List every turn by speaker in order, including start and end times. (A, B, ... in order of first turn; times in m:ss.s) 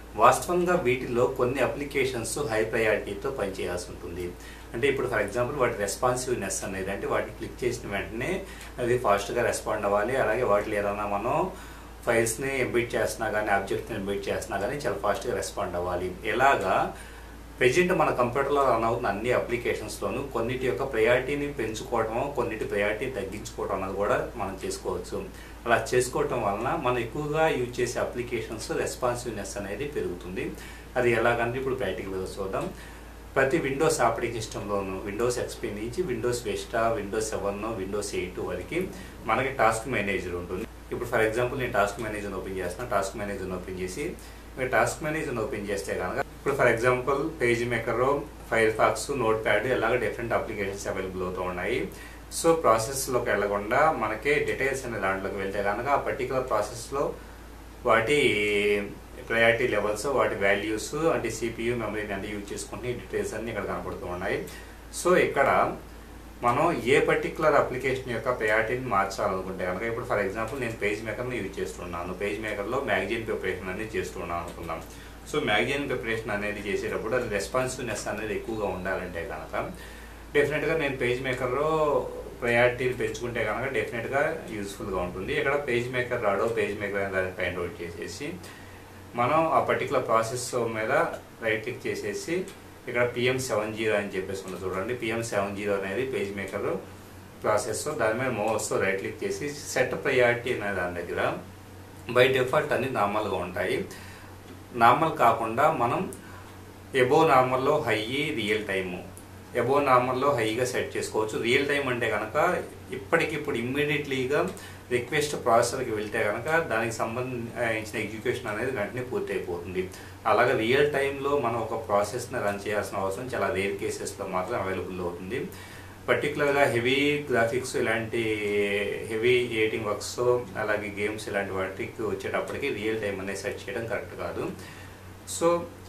0:00.2-0:11.4 A
0:12.0-0:16.8 A
0:17.6-0:32.7 A
0:33.4-0:57.0 A
0:57.9-1:04.4 A
1:05.0-1:05.6 A
1:06.4-1:19.7 A
1:20.3-1:28.3 A
1:29.2-1:36.8 A
1:37.4-1:41.3 A
1:42.1-1:43.8 A
1:44.8-1:46.0 A
1:47.0-1:49.0 A
1:49.6-2:05.4 A
2:06.1-2:14.5 A